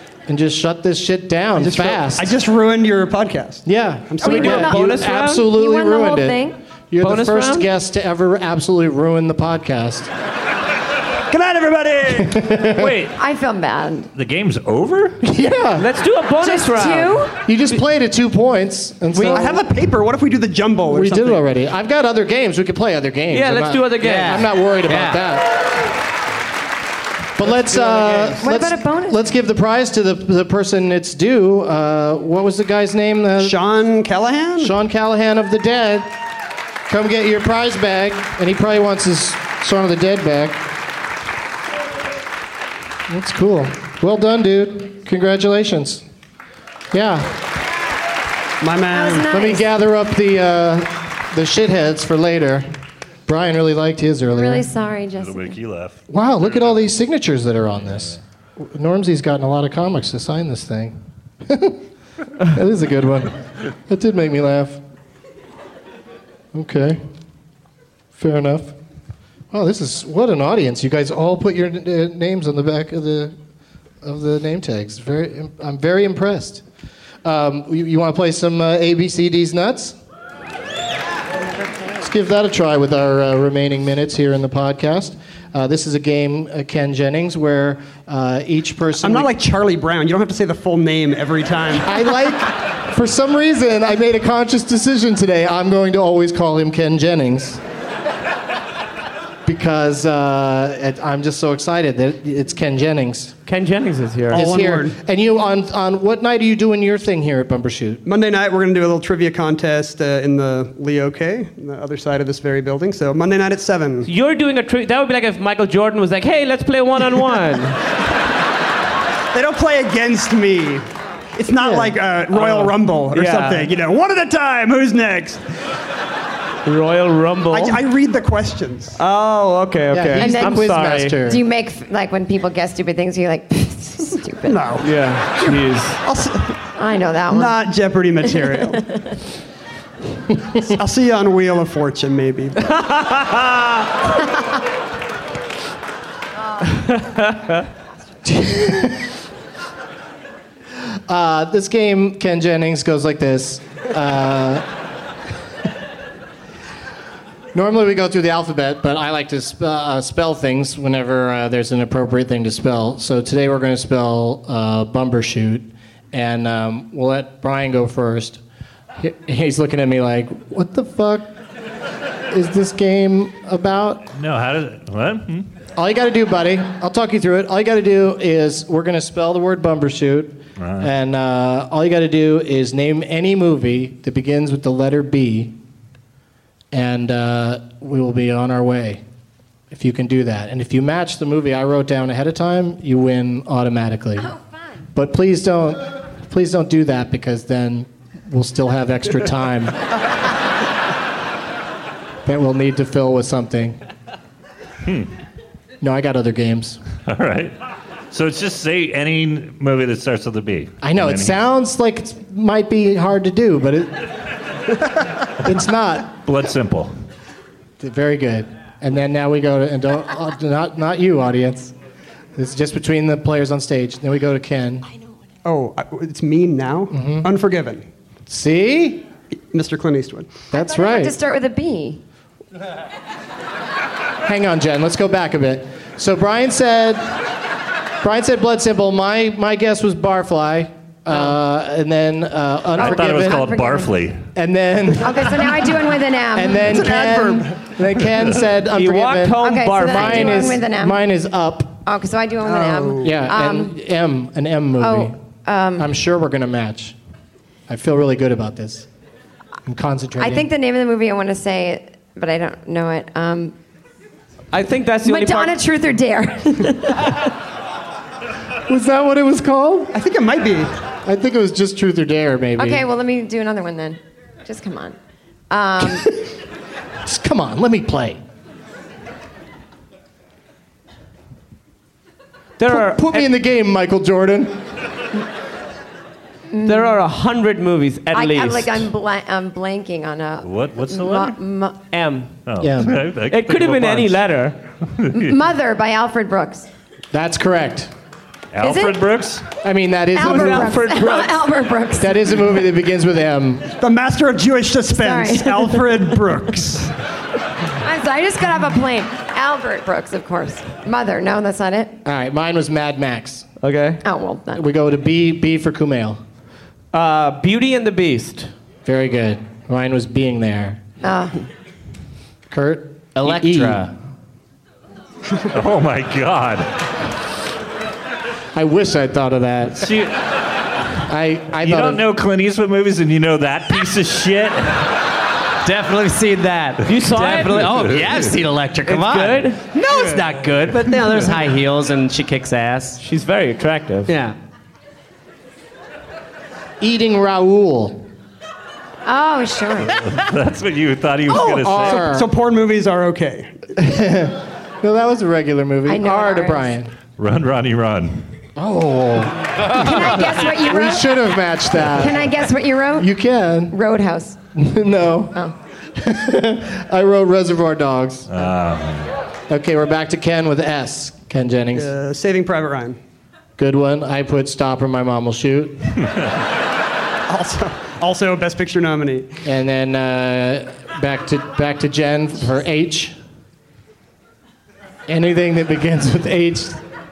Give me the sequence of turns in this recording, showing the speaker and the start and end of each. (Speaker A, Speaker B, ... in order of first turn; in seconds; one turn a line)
Speaker A: 0.3-2.3
Speaker B: 1.6-4.6
Speaker A: 3.6-10.1
Speaker C: 4.2-6.6
Speaker D: 4.3-5.5
Speaker D: 7.0-7.7
Speaker B: 11.3-12.4
Speaker A: 12.2-12.9
Speaker E: 12.7-13.2
Speaker C: 13.2-14.1
Speaker E: 14.1-15.2
Speaker A: 15.2-15.9
Speaker D: 15.8-17.3
Speaker C: 16.4-17.3
Speaker A: 17.4-19.6
Speaker D: 19.1-19.5
Speaker B: 19.2-21.4
Speaker A: 20.9-25.7
Speaker D: 23.3-24.3
Speaker F: 24.0-25.2
Speaker A: 27.4-33.6
Speaker B: 27.7-28.3
Speaker C: 28.4-29.2
Speaker B: 33.4-34.7
Speaker A: 34.6-36.1
Speaker A: 36.9-40.6
Speaker A: 43.1-46.0
Speaker A: 46.9-47.3
Speaker B: 48.6-49.3
Speaker C: 48.9-49.6
Speaker A: 49.3-52.7
Speaker A: 53.3-54.7
Speaker C: 54.3-55.5
Speaker E: 55.2-56.8
Speaker A: 56.1-61.8
Speaker A: 62.4-64.8
Speaker A: 66.5-67.0
Speaker A: 68.1-68.7
Speaker A: 69.5-73.3
Speaker A: 74.0-76.6
Speaker A: 77.2-80.0
Speaker A: 82.0-89.3
Speaker B: 89.0-92.1
Speaker A: 91.8-97.6
Speaker A: 99.4-103.3
Speaker D: 103.5-104.5
Speaker B: 104.3-105.0
Speaker A: 104.3-108.0
Speaker B: 108.0-114.1
Speaker D: 114.0-117.8
Speaker B: 119.3-125.4
Speaker A: 121.6-121.9
Speaker D: 122.3-123.7
Speaker D: 126.7-127.8
Speaker B: 127.5-129.0
Speaker D: 129.0-131.2
Speaker A: 129.9-131.4
Speaker C: 130.2-130.7
Speaker C: 131.2-134.6
Speaker B: 134.4-136.6
Speaker D: 134.8-136.0
Speaker C: 136.8-137.6
Speaker B: 137.3-138.8
Speaker B: 140.6-142.6
Speaker D: 142.7-143.7
Speaker D: 146.8-147.6
Speaker A: 148.2-149.1
Speaker A: 151.1-154.7
Speaker A: 157.5-168.4
Speaker A: 169.0-171.3
Speaker A: 172.3-174.0
Speaker E: 174.1-175.5
Speaker A: 175.8-185.6
Speaker E: 180.6-180.9
Speaker A: 186.7-189.0
Speaker A: 189.7-194.3
Speaker A: 194.9-199.8
Speaker A: 202.2-203.8
Speaker A: 205.8-206.8
Speaker E: 207.1-207.5
Speaker E: 208.1-211.4
Speaker A: 210.8-214.1
Speaker A: 215.4-216.2
Speaker E: 216.2-216.9
Speaker A: 217.8-221.7
Speaker A: 222.3-224.8
Speaker B: 225.4-227.8
Speaker A: 226.9-227.3
Speaker A: 228.3-229.0
Speaker B: 229.5-230.4
Speaker A: 230.5-231.1
Speaker C: 230.5-232.0
Speaker A: 234.2-237.1
Speaker A: 238.0-243.5
Speaker E: 242.8-244.2
Speaker C: 242.8-243.9
Speaker A: 244.3-245.6
Speaker C: 245.0-246.8
Speaker A: 246.3-251.8
Speaker B: 246.6-247.7
Speaker D: 248.7-250.6
Speaker C: 249.4-251.0
Speaker C: 251.8-253.7
Speaker B: 252.4-253.2
Speaker A: 253.0-255.2
Speaker C: 254.8-255.9
Speaker A: 255.8-257.0
Speaker A: 257.7-258.9
Speaker A: 259.6-260.5
Speaker C: 260.2-263.5
Speaker D: 264.5-265.6
Speaker C: 265.0-267.2
Speaker A: 268.7-269.9
Speaker B: 269.9-270.7
Speaker A: 271.0-272.8
Speaker C: 272.6-274.9
Speaker C: 275.5-276.1
Speaker A: 277.0-278.2
Speaker D: 282.6-283.3
Speaker A: 282.7-284.6
Speaker C: 286.5-287.0
Speaker D: 286.6-288.9
Speaker C: 288.1-291.8
Speaker E: 290.4-291.4
Speaker D: 291.9-292.3
Speaker E: 292.4-294.2
Speaker A: 292.6-293.0
Speaker D: 293.3-294.6
Speaker E: 294.9-295.3
Speaker C: 295.1-296.7
Speaker A: 297.1-297.9
Speaker E: 298.5-299.4
Speaker C: 298.6-299.0
Speaker A: 299.6-300.8
Speaker C: 300.1-302.4
Speaker D: 300.2-301.4
Speaker A: 302.0-303.7
Speaker B: 303.8-306.9
Speaker C: 304.9-305.9
Speaker C: 307.8-311.9
Speaker A: 312.0-313.5
Speaker D: 313.6-314.0
Speaker C: 314.0-314.6
Speaker A: 314.5-316.2
Speaker D: 316.9-318.5
Speaker A: 318.8-320.8
Speaker C: 321.0-321.3
Speaker A: 322.5-323.9
Speaker F: 323.1-323.9
Speaker E: 325.5-326.7
Speaker A: 328.5-329.9
Speaker E: 329.8-330.2
Speaker A: 331.1-332.0
Speaker E: 331.6-334.9
Speaker F: 335.6-343.0
Speaker D: 336.9-337.9
Speaker E: 337.5-338.3
Speaker D: 338.8-339.6
Speaker D: 343.0-344.1
Speaker F: 344.1-344.4
Speaker A: 346.8-348.1
Speaker C: 349.1-349.9
Speaker E: 349.9-352.1
Speaker A: 351.3-352.3
Speaker B: 351.8-353.5
Speaker A: 353.7-356.9
Speaker C: 355.9-356.7
Speaker E: 357.2-358.3
Speaker A: 358.5-362.3
Speaker C: 359.7-361.1
Speaker C: 361.9-363.1
Speaker A: 363.0-363.7
Speaker C: 363.7-364.4
Speaker A: 364.5-365.4
Speaker A: 365.9-368.4
Speaker E: 368.3-369.1
Speaker A: 369.5-371.9
Speaker B: 371.7-373.0
Speaker A: 373.6-375.9
Speaker B: 377.3-379.4
Speaker A: 379.4-383.2
Speaker A: 385.1-386.8